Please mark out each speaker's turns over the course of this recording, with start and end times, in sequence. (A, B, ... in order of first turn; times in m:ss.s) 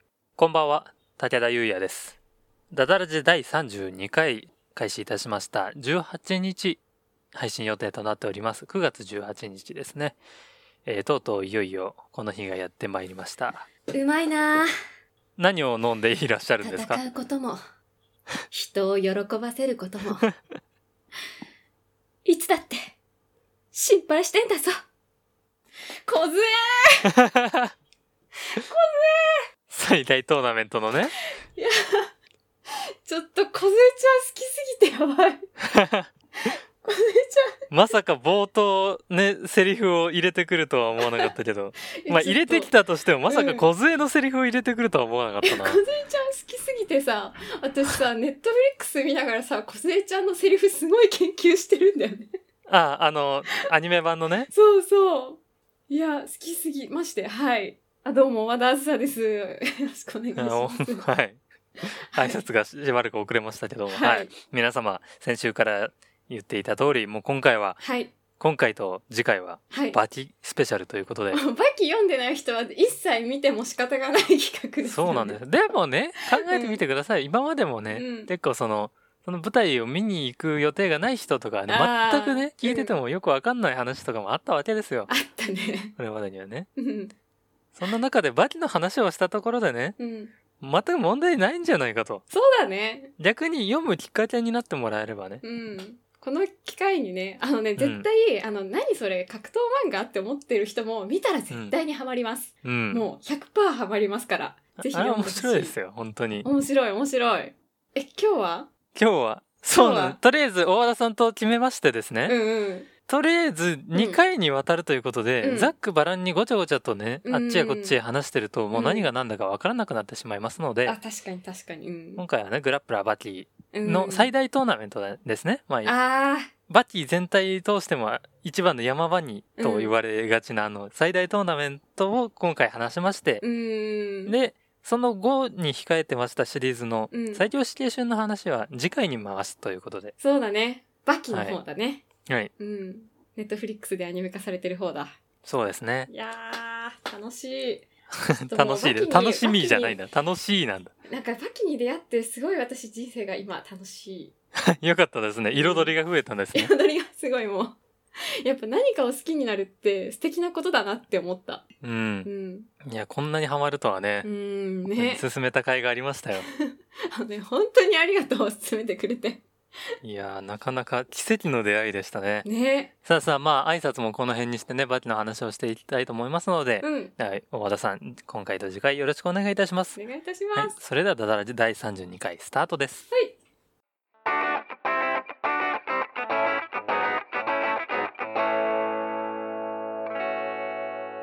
0:00.4-0:02.2 A
0:02.7-0:06.8 A
0:07.3-0:10.2 A
0:10.8-0:13.7 A
0:13.9-0:14.7 B
0:15.4-0:17.0 A
0:16.6-0:17.6 B
0:18.5-0:20.3 B
0:22.2-0:22.9 B
0:23.7-0:24.8 B
0:26.1-0:27.1 B
0:27.1-0:27.7 A
0:28.5-0:29.4 B
0:29.7-0:31.1 A
0:31.5-0:32.1 B
0:33.0-0:35.5 B
0:35.6-0:36.1 A
0:36.4-0:37.9 B
0:37.7-0:45.8 A
0:41.0-0:41.3 B
0:42.0-0:42.7 B
0:43.3-0:43.6 B
0:45.4-0:52.3 B
0:52.7-0:54.5 A
0:54.5-1:01.0 B
1:00.4-1:01.4 A
1:01.8-1:02.4 B
1:02.1-1:07.8 A
1:03.9-1:04.3 B
1:07.8-1:08.1 B
1:08.4-1:11.4 A
1:09.7-1:10.0 B
1:11.3-1:15.4 B
1:14.9-1:25.1 A
1:16.3-1:16.8 B
1:17.9-1:18.3 B
1:21.7-1:22.9 B
1:25.1-1:25.9 B
1:26.0-1:26.7 A
1:26.8-1:27.1 B
1:27.7-1:30.0 A
1:30.0-1:30.3 B
1:30.6-1:32.2 A
1:32.3-1:33.1 B
1:33.2-1:35.4 A
1:35.4-1:45.8 B
1:37.8-1:38.1 A
1:41.5-1:41.7 A
1:42.6-1:43.0 A
1:44.8-1:46.5 A
1:46.4-1:48.7 B
1:48.9-1:52.4 A
1:49.7-1:50.2 B
1:52.2-1:52.9 B
1:53.1-2:01.0 A
1:53.9-1:54.2 B
1:55.4-1:55.7 B
1:57.2-1:58.0 B
1:58.7-1:59.1 B
2:00.8-2:02.2 B
2:02.2-2:05.9 A
2:03.7-2:04.3 B
2:05.8-2:06.5 B
2:06.7-2:13.4 A
2:09.6-2:09.9 B
2:13.4-2:14.3 B
2:14.2-2:20.1 A
2:17.1-2:17.4 B
2:20.2-2:22.0 B
2:21.3-2:21.6 A
2:22.2-2:22.5 A
2:22.6-2:25.1 B
2:25.4-2:26.1 A
2:26.1-2:27.9 B
2:28.1-2:30.9 A
2:28.4-2:30.0 B
2:31.1-2:34.3 B
2:34.6-2:36.7 A
2:35.5-2:35.9 B
2:36.5-2:37.8 B
2:38.4-2:41.6 B
2:41.8-2:42.3 A
2:42.2-2:42.7 B
2:42.8-2:44.3 A
2:44.2-2:45.2 B
2:44.9-2:46.5 A
2:46.4-2:49.4 B
2:50.0-2:52.5 A
2:52.4-2:52.9 B
2:53.0-3:00.0 A
2:56.8-2:57.1 B
3:00.0-3:00.8 B
3:00.5-3:03.0 A
3:03.1-3:03.4 B